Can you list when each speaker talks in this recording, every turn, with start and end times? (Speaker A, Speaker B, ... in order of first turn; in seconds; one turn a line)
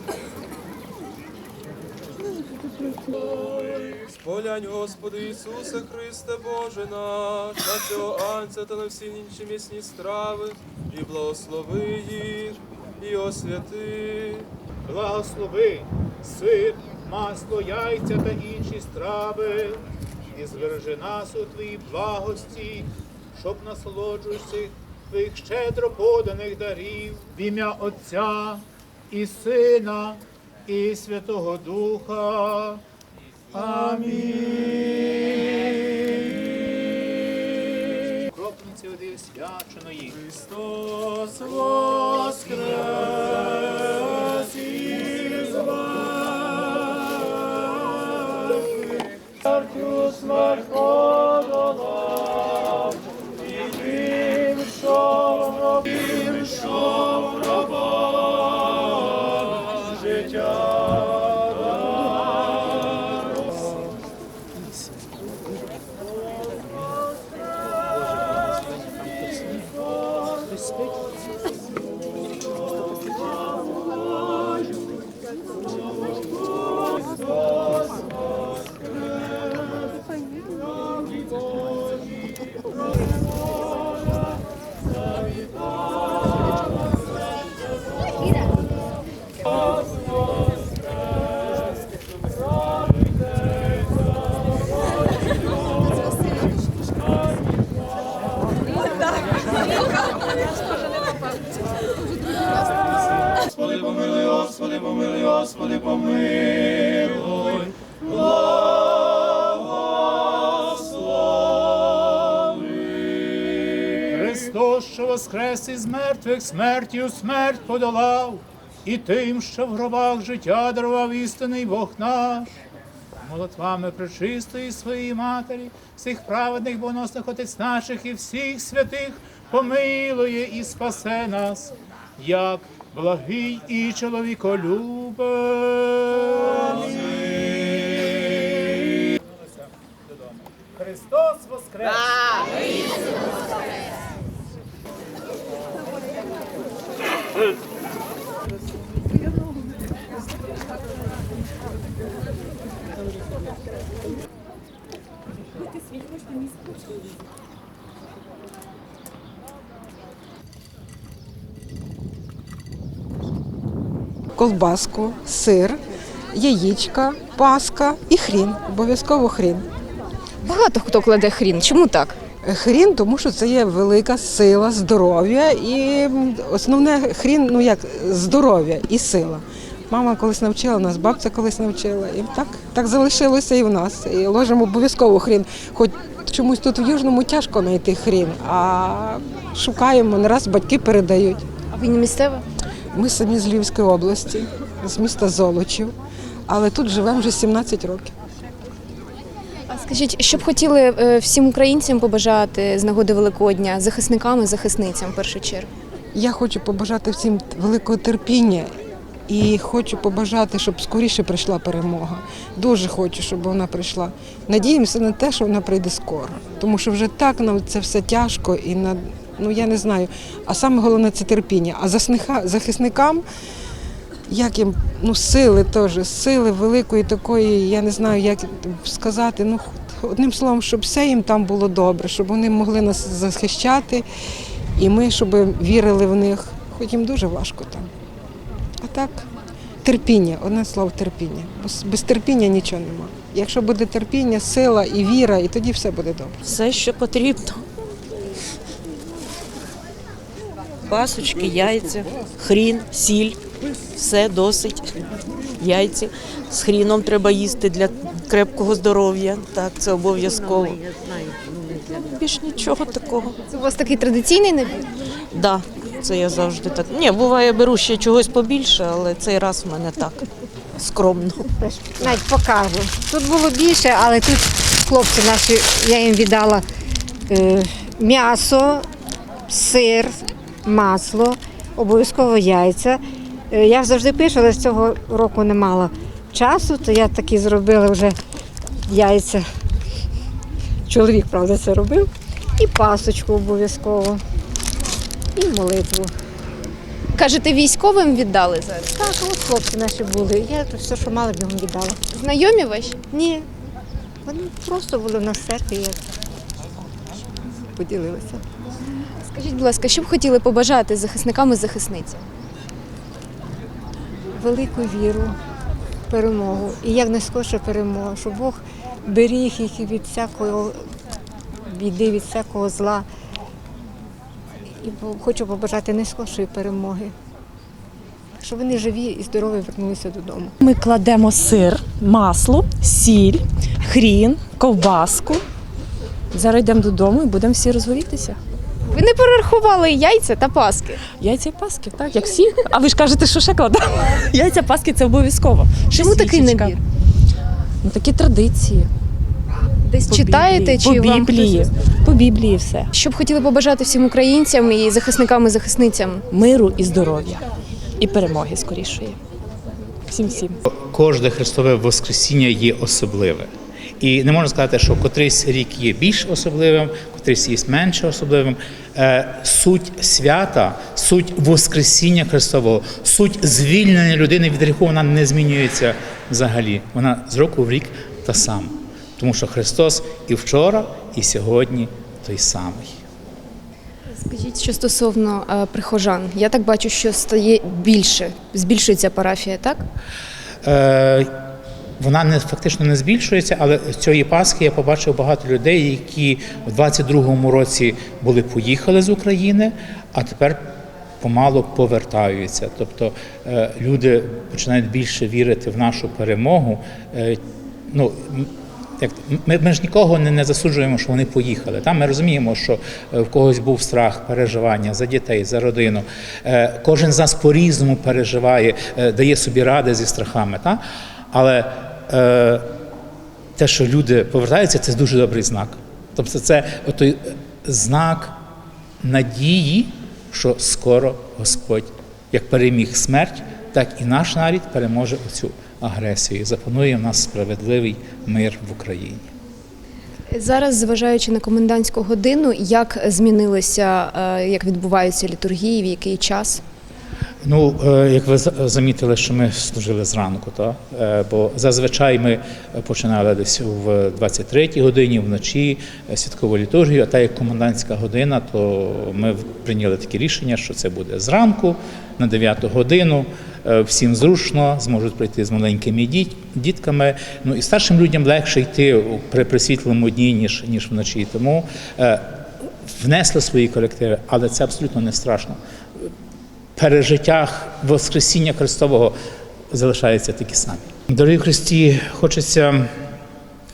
Speaker A: 3.4-14.5
Speaker B: 14.9-19.8
Speaker B: 20.3-32.8
Speaker B: 33.5-36.0
Speaker B: 38.2-45.9
Speaker B: 49.5-51.2
Speaker B: 114.1-122.5
Speaker B: 123.2-142.4
Speaker C: 164.3-165.8
Speaker C: 166.3-169.7
Speaker D: 170.4-172.2
Speaker C: 172.4-191.5
Speaker D: 191.7-192.4
Speaker C: 192.9-196.0
Speaker C: 196.5-198.2
Speaker D: 199.7-205.7
Speaker C: 206.1-208.8
Speaker C: 209.3-223.2
Speaker C: 224.3-234.1
Speaker C: 234.8-237.9
Speaker C: 238.8-239.3
Speaker C: 239.8-246.3
Speaker E: 246.4-247.6
Speaker E: 250.9-253.4
Speaker E: 253.9-254.9
Speaker E: 255.6-260.8
Speaker E: 261.8-263.4
Speaker D: 263.5-264.9
Speaker E: 265.3-270.2
Speaker E: 270.8-271.5
Speaker F: 271.6-276.6
Speaker F: 277.3-278.9
Speaker F: 279.5-288.2
Speaker F: 288.9-289.4
Speaker F: 290.9-294.2
Speaker F: 295.4-296.1
Speaker D: 297.1-298.9
Speaker F: 298.9-302.0
Speaker D: 302.1-303.2
Speaker F: 303.2-303.4
Speaker F: 304.2-306.0
Speaker F: 307.7-308.4
Speaker D: 309.3-312.2
Speaker F: 314.4-315.4
Speaker F: 316.1-320.9
Speaker F: 321.6-323.1
Speaker F: 324.8-327.1
Speaker F: 328.4-330.6
Speaker G: 330.6-335.4
Speaker G: 336.3-338.4
Speaker D: 338.9-341.0
Speaker G: 341.2-346.8
Speaker D: 345.9-346.8
Speaker G: 347.8-348.9
Speaker D: 349.9-351.6
Speaker G: 350.1-352.9
Speaker D: 352.9-356.2
Speaker G: 356.3-357.4
Speaker G: 358.0-359.2
Speaker G: 360.1-360.6
Speaker H: 360.7-363.5
Speaker H: 364.0-383.0
Speaker D: 384.1-389.8
Speaker H: 390.6-391.3
Speaker H: 392.0-422.7
Speaker H: 423.6-428.3
Speaker H: 429.0-439.3
Speaker D: 440.3-446.6
Speaker H: 447.4-472.3
Speaker H: 472.9-475.6
Speaker H: 476.8-479.1
Speaker H: 479.7-482.9